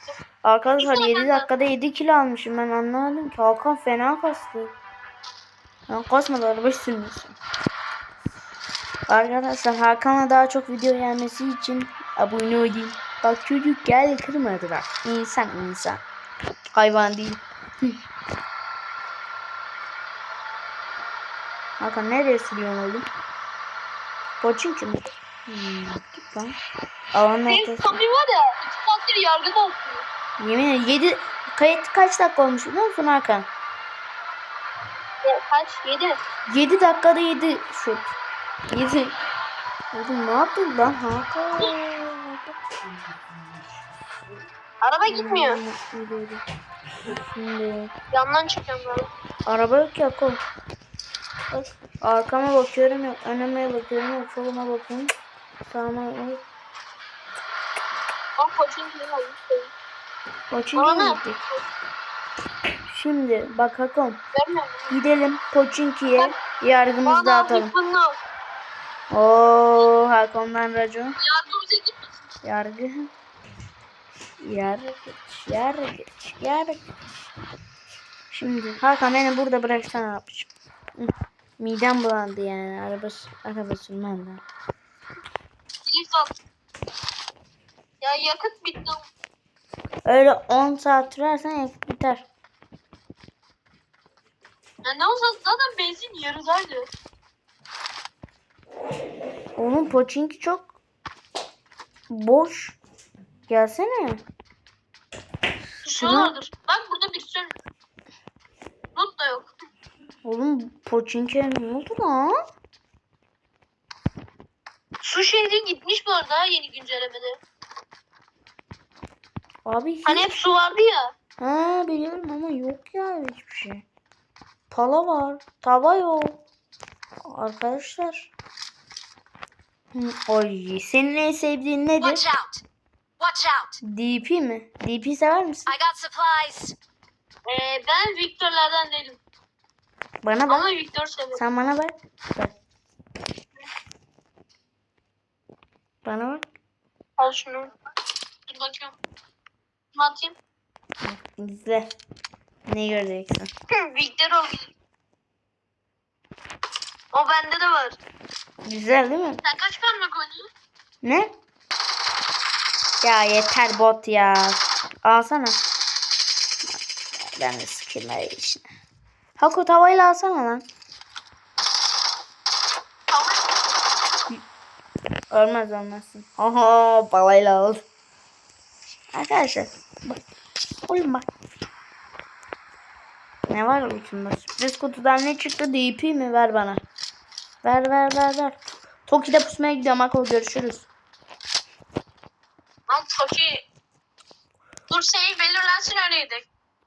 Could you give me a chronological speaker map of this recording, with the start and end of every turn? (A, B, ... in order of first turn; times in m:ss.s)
0:00.4-0:04.7 A
0:00.8-0:01.5 B
0:05.9-0:07.4 A
0:09.1-0:16.0 A
0:16.7-0:18.0 A
0:21.8-0:23.0 A
0:24.4-0:26.5 A
0:27.1-0:28.0 A
0:27.5-0:30.0 B
0:30.4-0:33.5 A
0:35.2-0:36.2 B
0:36.5-0:38.1 A
0:38.7-0:39.1 A
0:39.9-0:42.6 A
0:44.8-0:45.6 B
0:45.0-0:46.4 A
0:47.1-0:47.9 A
0:48.1-0:49.1 B
0:49.5-0:50.4 A
0:51.5-0:55.1 A
0:55.7-0:56.4 A
0:58.4-0:59.7 B
1:00.5-1:01.4 A
1:00.8-1:01.6 B
1:02.9-1:04.2 A
1:04.3-1:04.9 B
1:04.9-1:07.7 A
1:07.0-1:08.2 B
1:09.1-1:11.2 A
1:11.2-1:12.1 B
1:12.4-1:13.1 A
1:14.4-1:16.9 A
1:18.3-1:24.4 A
1:25.8-1:26.3 B
1:28.0-1:29.0 B
1:30.0-1:32.2 A
1:34.8-1:36.9 B
1:39.6-1:40.7 A
1:42.1-1:42.8 A
1:43.5-1:44.2 A
1:45.8-1:47.5 B
1:46.0-1:46.4 A
1:49.0-1:49.5 B
1:50.2-1:52.4 A
1:55.0-1:57.4 B
1:59.6-2:00.3 A
2:00.0-2:01.1 B
2:01.4-2:03.8 A
2:04.7-2:06.4 A
2:07.2-2:08.3 A
2:09.9-2:12.2 A
2:12.0-2:12.6 C
2:13.2-2:13.8 C
2:13.8-2:15.7 A
2:15.6-2:16.8 C
2:17.4-2:19.2 B
2:20.2-2:20.7 A
2:20.5-2:21.4 B
2:21.3-2:22.5 A
2:26.0-2:26.4 A
2:27.2-2:27.7 B
2:28.5-2:29.0 B
2:29.9-2:30.3 B
2:31.0-2:31.9 A
2:32.7-2:33.5 A
2:33.7-2:34.7 B
2:37.1-2:38.0 B
2:38.6-2:39.4 A
2:39.4-2:40.5 B
2:41.0-2:41.3 A
2:43.0-2:45.6 A
2:47.2-2:48.7 A
2:49.4-2:50.6 A
2:53.1-2:53.6 B
2:55.3-2:57.8 A
2:59.1-3:00.2 A
3:00.9-3:01.3 A
3:03.5-3:06.8 A
3:07.6-3:10.9 A
3:12.9-3:13.6 B
3:14.9-3:16.4 B